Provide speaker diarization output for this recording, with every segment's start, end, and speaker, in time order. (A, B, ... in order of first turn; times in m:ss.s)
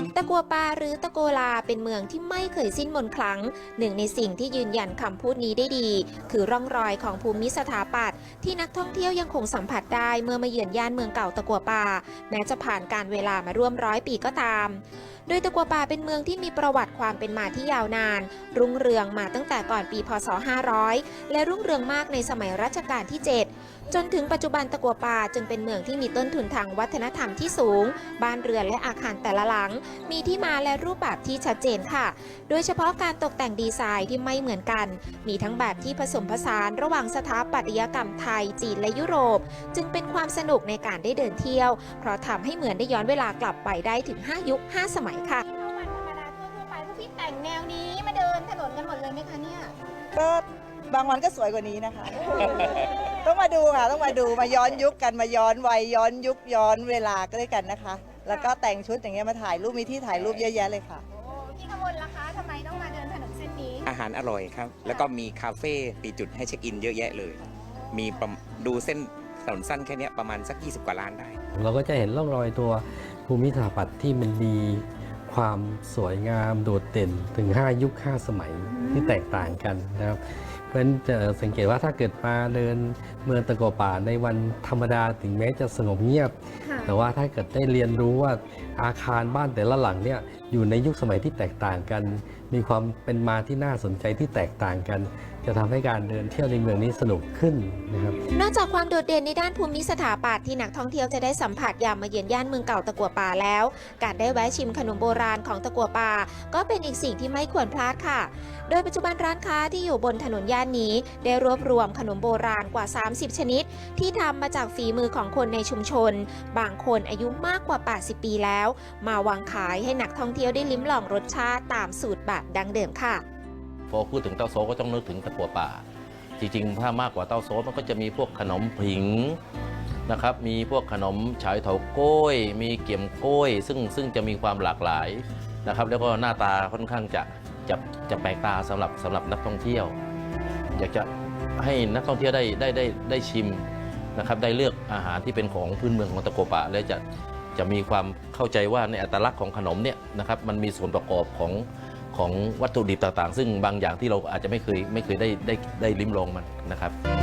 0:00.1-0:45.4 A
0:50.1-1:01.0 B
1:00.1-1:00.5 C
1:01.3-1:03.8 D
1:03.8-1:11.4 C
1:11.5-1:38.2 E
1:38.3-2:03.2 A
2:03.9-2:05.8 F
2:06.4-2:09.4 F
2:10.0-2:19.9 F
2:20.7-2:23.6 F
2:24.2-2:27.0 F
2:27.5-2:36.9 F